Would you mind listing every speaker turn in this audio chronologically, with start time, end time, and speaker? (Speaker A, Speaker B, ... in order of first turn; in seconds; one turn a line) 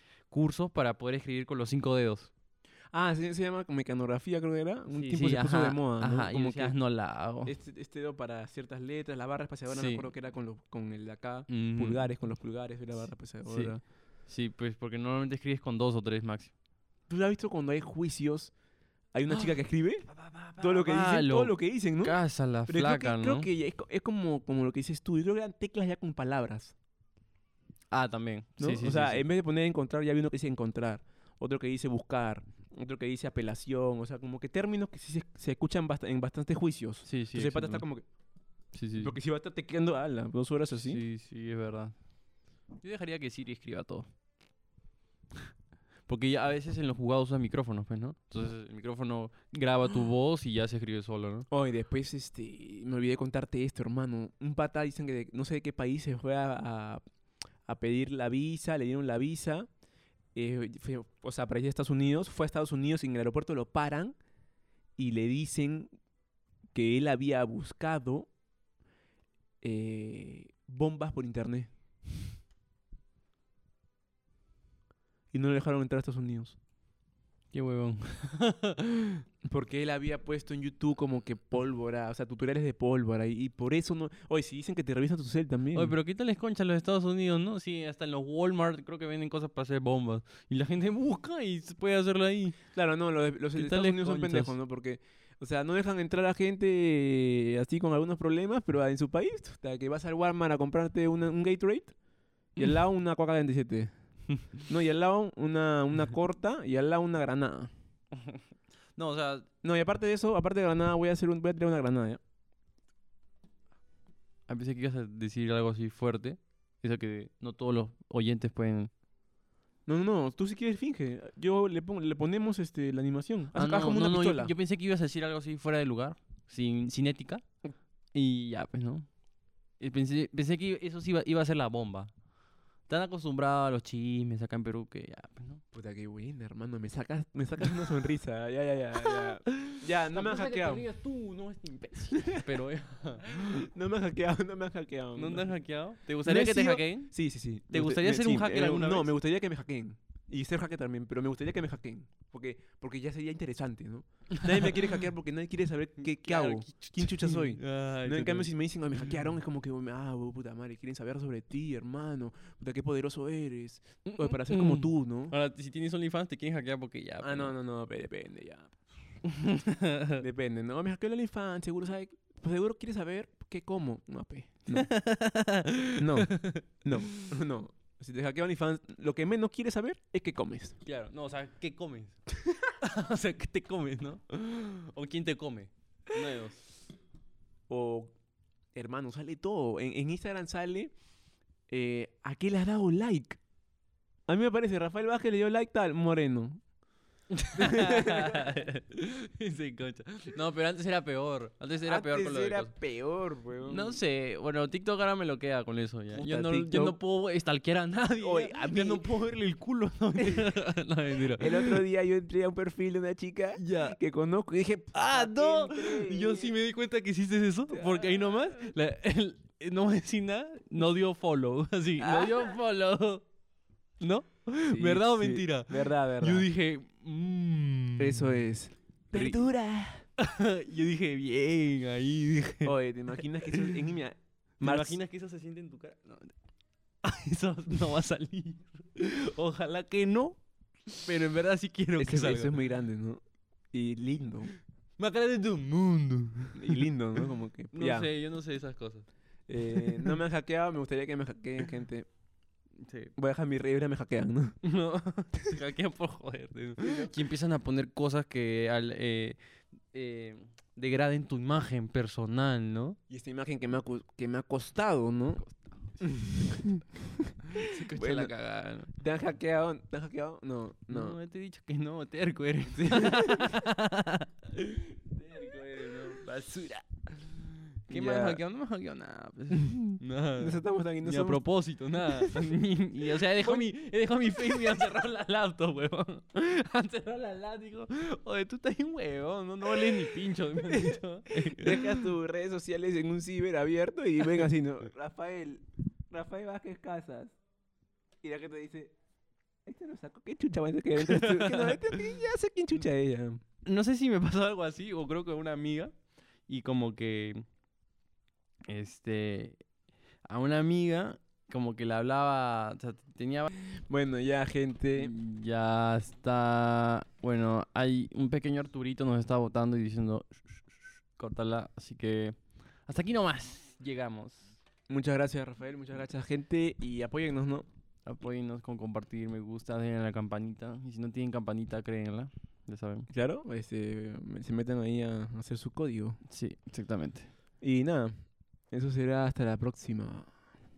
Speaker A: 0.3-2.3
Speaker B: 2.9-6.8
Speaker A: 4.9-7.5
Speaker B: 7.5-13.8
Speaker A: 9.7-10.1
Speaker A: 11.5-12.1
Speaker A: 13.4-13.8
Speaker A: 14.3-16.5
Speaker B: 17.1-18.5
Speaker B: 19.1-20.1
Speaker A: 20.1-23.5
Speaker B: 20.6-22.2
Speaker B: 22.7-26.7
Speaker A: 27.9-29.2
Speaker B: 28.6-38.0
Speaker A: 37.0-37.8
Speaker A: 38.7-39.1
Speaker B: 39.0-41.0
Speaker A: 40.8-41.9
Speaker A: 42.8-44.1
Speaker A: 46.1-51.5
Speaker B: 51.5-57.0
Speaker B: 57.6-59.7
Speaker B: 60.3-64.2
Speaker B: 65.0-65.9
Speaker B: 66.7-68.3
Speaker B: 69.6-71.7
Speaker B: 75.3-76.6
Speaker A: 77.5-79.2
Speaker B: 79.4-86.0
Speaker A: 85.7-92.6
Speaker B: 92.7-101.9
Speaker A: 93.5-94.5
Speaker B: 102.5-103.9
Speaker B: 104.7-107.7
Speaker A: 108.1-108.4
Speaker A: 109.0-109.5
Speaker B: 109.6-112.2
Speaker A: 114.5-118.9
Speaker B: 119.8-124.5
Speaker A: 123.5-127.4
Speaker A: 128.1-129.1
Speaker A: 129.8-132.1
Speaker A: 132.9-135.6
Speaker B: 135.7-140.8
Speaker A: 139.0-143.7
Speaker B: 142.1-142.5
Speaker B: 143.2-145.5
Speaker A: 145.2-147.1
Speaker B: 146.2-165.3
Speaker A: 147.7-149.2
Speaker A: 154.3-154.9
Speaker A: 156.1-159.2
Speaker A: 164.1-167.5
Speaker B: 167.2-168.8
Speaker A: 169.2-170.2
Speaker B: 170.2-174.9
Speaker A: 174.7-177.3
Speaker B: 176.0-180.8
Speaker A: 180.8-186.6
Speaker B: 187.7-188.1
Speaker B: 188.7-190.9
Speaker B: 191.7-193.4
Speaker B: 194.3-196.6
Speaker A: 197.3-202.7
Speaker B: 197.5-198.7
Speaker B: 201.8-204.0
Speaker A: 203.7-211.8
Speaker B: 206.1-207.0
Speaker B: 208.2-209.1
Speaker B: 210.2-210.5
Speaker B: 211.4-216.5
Speaker A: 213.6-214.0
Speaker A: 214.9-223.2
Speaker B: 217.7-218.3
Speaker B: 222.0-222.5
Speaker A: 224.0-228.4
Speaker B: 224.7-226.5
Speaker B: 228.0-230.0
Speaker A: 229.1-229.5
Speaker A: 230.2-232.7
Speaker B: 232.6-235.0
Speaker A: 233.4-233.8
Speaker A: 234.6-236.3
Speaker A: 237.0-240.4
Speaker A: 240.9-242.6
Speaker B: 242.0-243.2
Speaker B: 243.7-244.5
Speaker A: 245.0-246.8
Speaker B: 246.5-248.1
Speaker A: 247.7-249.1
Speaker B: 249.5-252.1
Speaker A: 249.6-250.2
Speaker A: 252.8-253.1
Speaker B: 253.2-254.6
Speaker A: 254.6-259.4
Speaker B: 256.8-257.1
Speaker A: 259.9-263.0
Speaker B: 263.1-265.4
Speaker A: 265.4-265.8
Speaker B: 266.0-268.3
Speaker A: 267.5-268.9
Speaker B: 268.9-271.1
Speaker A: 270.9-292.1
Speaker B: 272.8-273.6
Speaker B: 277.9-278.4
Speaker B: 279.5-281.4
Speaker B: 282.1-282.5
Speaker B: 283.1-283.6
Speaker B: 284.3-284.9
Speaker B: 289.6-297.4
Speaker B: 298.2-298.9
Speaker B: 299.6-303.4
Speaker A: 300.9-302.0
Speaker A: 303.6-305.9
Speaker A: 306.5-307.4
Speaker A: 308.7-309.6
Speaker A: 310.2-313.5
Speaker B: 313.9-315.1
Speaker A: 314.9-320.6
Speaker A: 321.2-322.4
Speaker A: 322.9-324.5
Speaker B: 324.9-327.7
Speaker A: 328.1-333.1
Speaker B: 333.1-336.2
Speaker A: 336.3-337.3
Speaker B: 337.6-338.2
Speaker B: 338.7-340.3